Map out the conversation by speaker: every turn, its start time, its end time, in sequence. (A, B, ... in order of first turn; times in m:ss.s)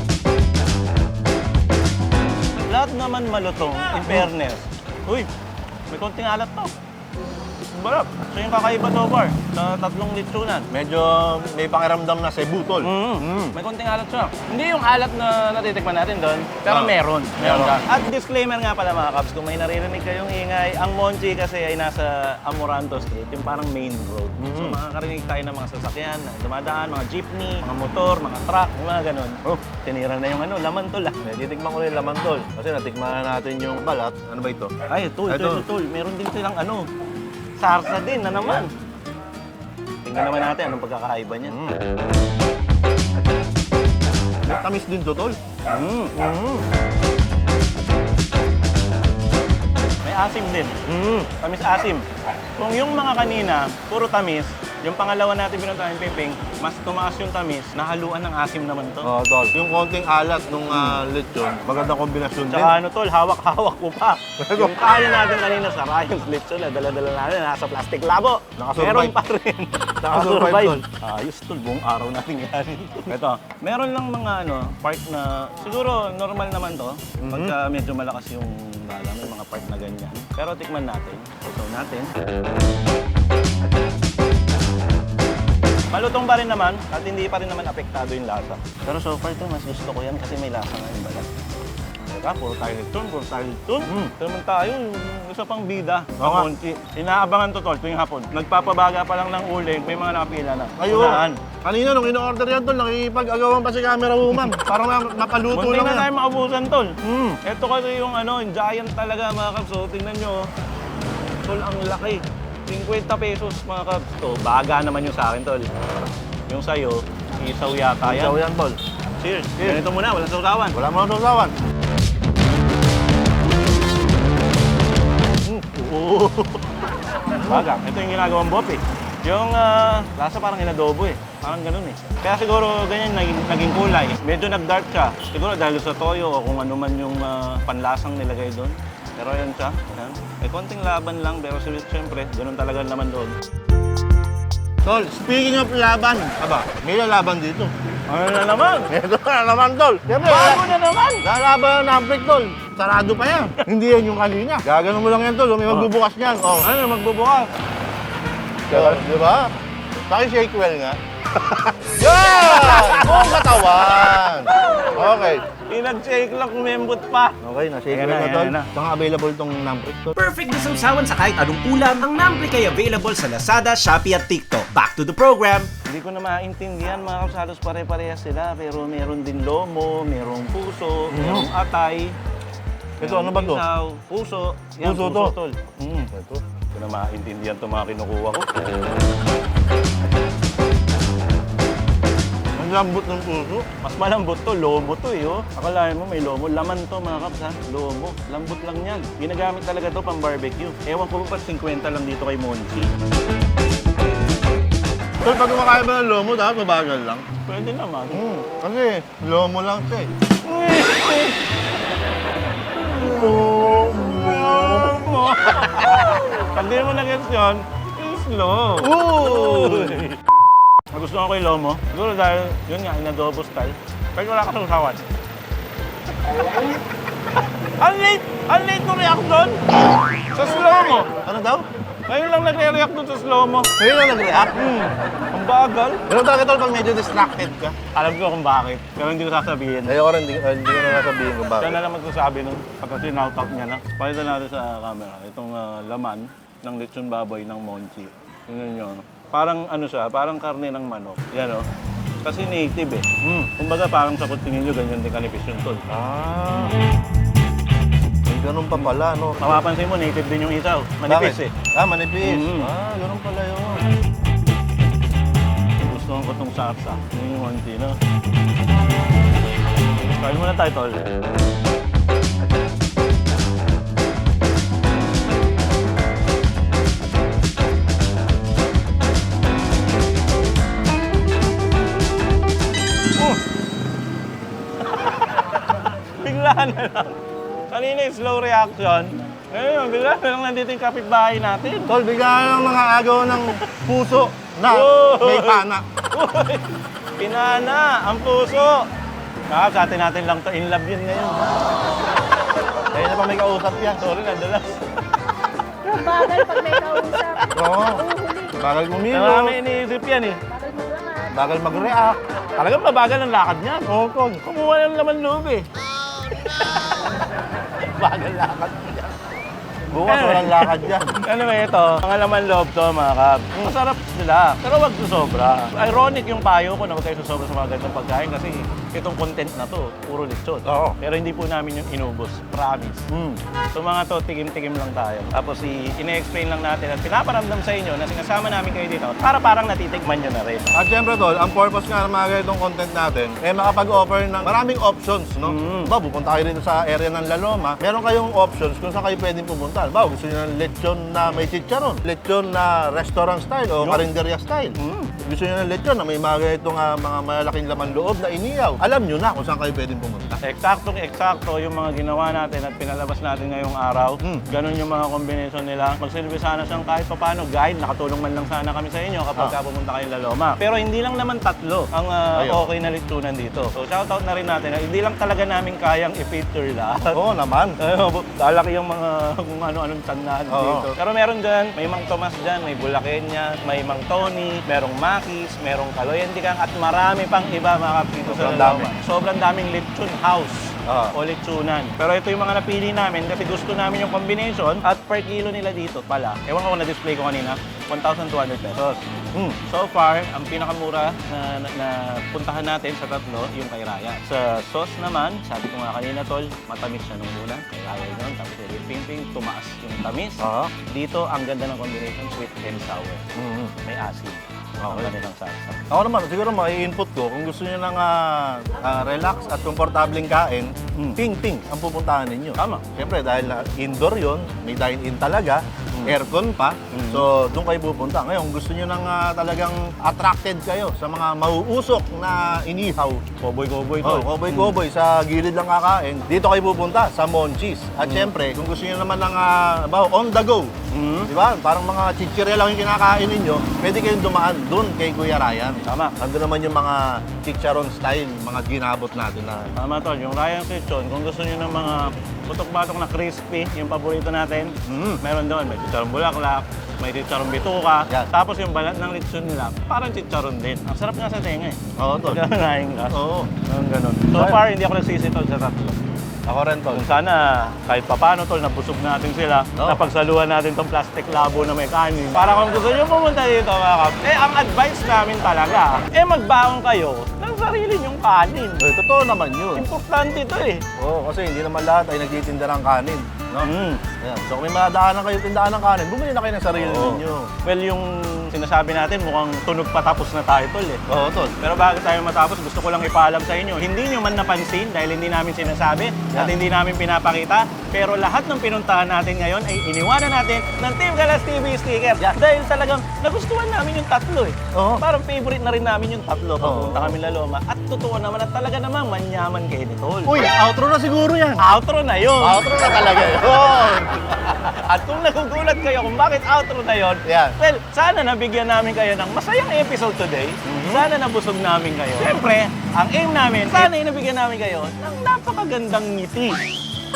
0:02.7-0:05.3 A
0:03.9-0:04.3 B
0:05.9-0:06.7 A
0:07.7-0:10.7 A
0:10.7-0:13.5 B
0:12.8-0:31.2 A
0:16.7-0:17.8 B
0:24.4-0:24.8 B
0:31.2-0:34.7 B
0:34.9-0:36.9 A
0:35.3-0:35.6 B
0:37.6-0:38.7 A
0:40.0-0:41.6 A
0:41.5-0:41.8 B
0:44.4-0:45.4 B
0:45.7-0:46.1 A
0:46.1-0:46.6 B
0:50.0-0:50.8 A
0:50.8-0:51.3 B
0:51.4-0:52.0 A
0:52.6-0:59.1 A
0:59.0-1:02.8 B
1:02.5-1:22.1 A
1:04.4-1:04.8 B
1:08.6-1:09.2 B
1:10.0-1:10.8 B
1:17.2-1:17.6 B
1:25.9-1:31.3 A
1:32.1-1:41.4 A
1:36.2-1:36.5 B
1:40.8-1:46.1 B
1:45.5-1:50.5 A
1:47.0-1:47.4 B
1:51.4-1:55.7 A
1:56.5-1:58.4 A
1:58.0-1:58.8 B
1:59.2-2:00.8 A
1:59.6-1:59.8 B
2:00.7-2:01.5 B
2:05.7-2:06.7 A
2:07.4-2:07.7 B
2:07.4-2:23.3 A
2:24.8-2:27.7 B
2:28.1-2:28.9 A
2:28.9-2:36.7 B
2:30.2-2:31.2 A
2:36.6-2:37.5 A
2:38.7-2:39.0 A
2:38.7-2:39.5 B
2:40.0-2:45.4 B
2:42.0-2:43.6 A
2:45.5-2:47.4 A
2:47.4-2:50.1 B
2:47.9-2:48.7 A
2:50.1-2:55.7 C
2:55.8-3:02.2 A
3:01.1-3:01.5 B
3:03.0-3:06.1 A
3:03.0-3:03.6 B
3:04.8-3:05.4 B
3:06.1-3:06.4 B
3:06.7-3:08.5 A
3:12.6-3:13.6 B
3:13.8-3:22.9 A
3:25.2-3:27.3 B
3:27.4-3:28.2 A
3:28.1-3:30.1 B
3:30.4-3:31.4 A
3:32.8-3:36.3 B
3:34.2-3:40.1 A
3:38.8-3:40.1 B
3:40.9-3:45.1 A
3:47.8-3:49.6 A
3:50.3-3:51.1 A
3:51.1-3:51.6 B
3:52.1-3:53.7 A
3:53.8-3:54.8 B
3:54.4-3:56.0 A
3:56.1-3:57.8 B
3:57.9-4:00.0 A
3:59.8-4:01.8 B
4:01.6-4:11.6 A
4:12.2-4:15.8 A
4:15.9-4:16.7 B
4:18.2-4:19.6 B
4:19.4-4:21.5 A
4:21.1-4:23.8 B
4:22.2-4:22.7 A
4:25.8-4:28.0 A
4:30.2-4:31.1 A
4:45.0-4:51.9 A
4:51.9-4:55.8 B
4:54.7-4:58.9 A
4:59.5-5:01.7 A
5:02.9-5:04.0 B
5:04.0-5:04.9 A
5:05.8-5:08.5 D
5:06.1-5:06.4 A
5:07.5-5:09.6 B
5:09.1-5:10.4 A
5:10.5-5:11.4 D
5:11.3-5:12.2 B
5:12.6-5:13.9 A
5:13.8-5:14.4 B
5:14.4-5:15.7 A
5:16.3-5:17.1 A
5:17.8-5:19.1 A
5:19.9-5:21.1 B
5:20.0-5:33.1 A
5:30.6-5:31.0 B
5:33.1-5:33.4 B
5:33.7-5:40.7 A
5:40.7-6:00.4 B
5:45.4-5:45.9 A
5:53.8-5:54.1 A
5:54.8-5:55.1 A
6:00.4-6:17.2 A
6:12.3-6:12.7 B
6:17.1-6:17.8 B
6:17.8-6:39.0 A
6:20.5-6:20.9 B
6:28.2-6:28.9 B
6:30.8-6:31.2 B
6:39.6-6:53.3 A
6:50.4-6:50.7 B
6:53.4-6:53.7 B
6:53.8-6:55.9 A
6:54.8-6:55.1 B
6:55.9-7:13.2 B
7:00.9-7:01.2 A
7:02.6-7:02.8 A
7:06.9-7:07.2 A
7:13.4-7:14.8 A
7:14.0-7:29.7 B
7:18.0-7:18.3 A
7:20.9-7:21.3 A
7:25.8-7:26.2 A
7:29.8-7:46.1 A
7:34.8-7:35.2 B
7:42.0-7:42.4 B
7:43.1-7:43.5 B
7:44.3-7:44.6 B
7:46.4-7:47.0 B
7:46.9-7:58.8 A
7:49.8-7:50.0 B
7:58.8-7:59.9 B
7:59.7-8:00.8 A
8:01.0-8:07.5 B
8:03.6-8:04.0 A
8:06.7-8:11.0 A
8:11.1-8:11.5 B
8:11.6-8:30.4 A
8:24.7-8:25.0 B
8:26.6-8:27.2 B
8:30.2-8:31.6 B
8:31.6-8:33.5 A
8:32.4-8:34.6 B
8:34.5-8:46.6 A
8:37.2-8:37.5 B
8:40.6-8:41.1 B